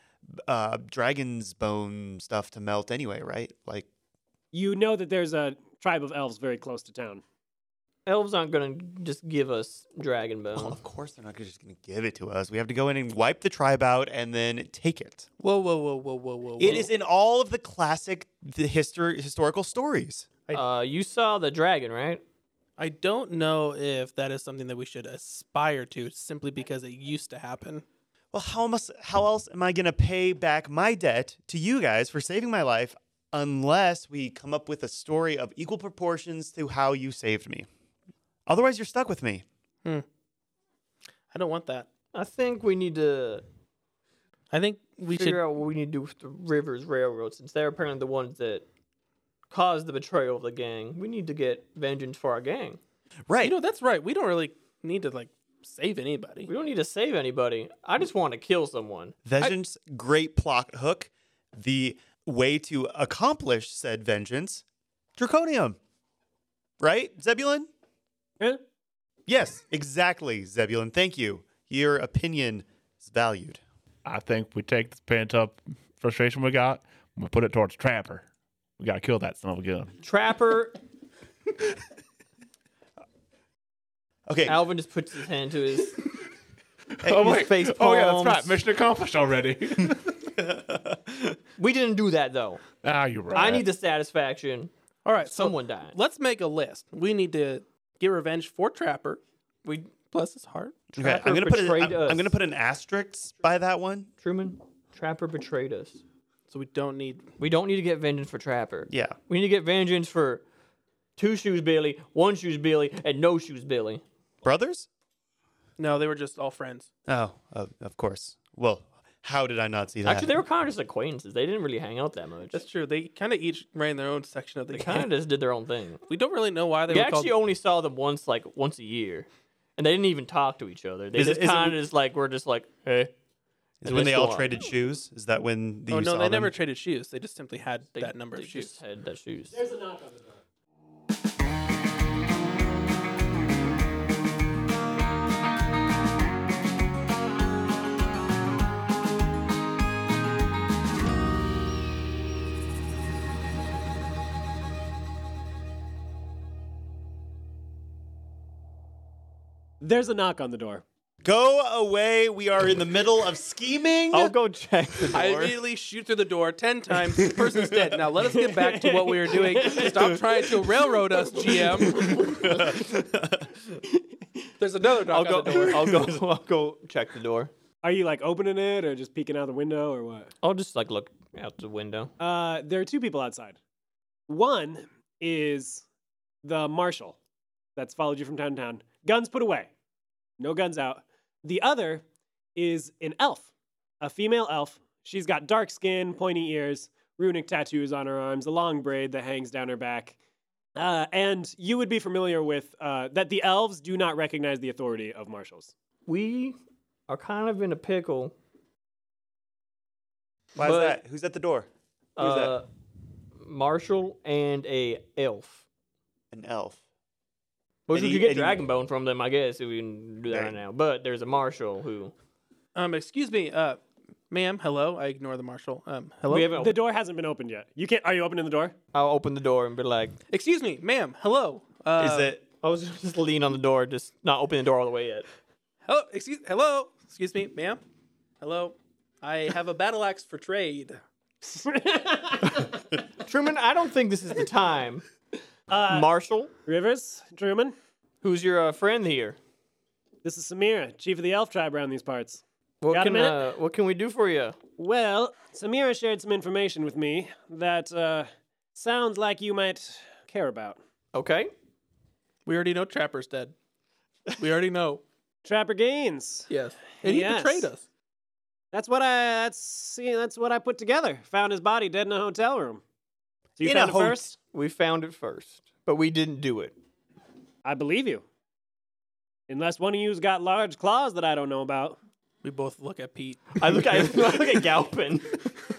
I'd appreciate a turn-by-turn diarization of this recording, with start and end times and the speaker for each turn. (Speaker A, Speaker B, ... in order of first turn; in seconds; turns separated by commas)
Speaker A: 0.4-3.9, Speaker B: 4.5-7.2, Speaker C: 8.1-10.8, Speaker A: 10.5-15.2, Speaker D: 15.4-16.9, Speaker A: 16.6-20.2, Speaker C: 20.5-22.2, Speaker D: 22.8-27.9, Speaker A: 28.3-37.7, Speaker A: 38.5-39.4, Speaker D: 41.3-41.9, Speaker C: 42.1-43.4, Speaker D: 44.5-45.4, Speaker C: 45.1-48.6, Speaker C: 49.5-52.8, Speaker A: 53.3-53.6, Speaker D: 53.4-56.5, Speaker C: 56.5-59.2, Speaker A: 59.2-64.6, Speaker A: 65.2-65.8, Speaker A: 66.8-67.7, Speaker A: 69.3-73.6, Speaker E: 74.0-78.2, Speaker E: 78.8-80.0, Speaker C: 80.0-80.8, Speaker A: 84.3-84.6, Speaker C: 84.4-86.0, Speaker E: 87.0-90.2, Speaker A: 87.0-87.3, Speaker C: 87.2-88.6, Speaker A: 90.4-90.8, Speaker C: 91.6-92.6, Speaker E: 92.8-93.7, Speaker C: 93.3-96.0, Speaker D: 95.0-99.2, Speaker C: 99.6-99.9, Speaker D: 100.1-100.9, Speaker A: 100.9-104.1, Speaker C: 101.0-102.3, Speaker C: 104.2-106.0, Speaker D: 106.5-107.3, Speaker C: 107.4-110.4, Speaker A: 108.9-109.2, Speaker C: 111.2-114.0, Speaker A: 114.4-114.9, Speaker D: 115.8-116.9, Speaker A: 117.1-120.3, Speaker C: 120.0-122.6, Speaker D: 122.5-125.1, Speaker C: 124.7-126.0, Speaker D: 126.1-127.4, Speaker C: 126.9-133.1, Speaker A: 131.1-131.8, Speaker A: 133.8-136.5, Speaker C: 133.8-134.5, Speaker D: 135.9-138.7, Speaker C: 137.9-139.6, Speaker B: 139.5-140.4, Speaker B: 159.8-160.8, Speaker A: 161.2-164.3, Speaker C: 164.1-165.6, Speaker D: 165.1-172.4, Speaker B: 168.3-169.8, Speaker C: 169.3-170.2, Speaker C: 171.2-172.8, Speaker A: 172.1-173.4, Speaker D: 174.6-176.2, Speaker C: 174.8-177.5, Speaker B: 177.8-180.3, Speaker C: 180.4-182.1, Speaker B: 182.2-183.6, Speaker B: 184.3-185.8, Speaker B: 186.4-187.2, Speaker B: 187.8-189.7, Speaker B: 190.4-192.0, Speaker B: 192.6-193.5, Speaker B: 194.0-200.1, Speaker B: 200.8-205.7, Speaker C: 206.1-206.6, Speaker C: 207.1-208.3, Speaker A: 210.5-212.6, Speaker C: 210.6-211.0, Speaker C: 212.2-212.7, Speaker C: 213.4-215.6, Speaker A: 216.3-216.8, Speaker C: 217.9-222.1, Speaker A: 217.9-218.6, Speaker A: 220.3-220.6, Speaker D: 222.7-226.5, Speaker C: 226.3-226.8, Speaker B: 226.5-228.7, Speaker C: 228.9-230.2, Speaker D: 230.3-232.4, Speaker A: 232.0-232.4, Speaker C: 232.6-235.3, Speaker D: 235.8-237.8, Speaker D: 238.4-241.0, Speaker B: 241.4-242.7, Speaker C: 243.2-245.0, Speaker B: 245.7-246.1, Speaker C: 245.9-246.5, Speaker B: 246.7-247.7, Speaker C: 248.2-249.4, Speaker B: 250.2-253.4, Speaker C: 252.8-254.6, Speaker B: 254.8-260.8, Speaker C: 261.1-261.5, Speaker D: 262.4-263.5, Speaker D: 264.3-265.0, Speaker B: 265.4-266.5, Speaker D: 266.5-267.8, Speaker B: 267.0-267.7, Speaker B: 268.7-272.8, Speaker B: 273.6-274.4, Speaker A: 273.6-274.3, Speaker C: 274.5-276.7, Speaker B: 277.6-278.2, Speaker B: 279.5-282.0, Speaker D: 282.4-284.4, Speaker C: 283.6-285.4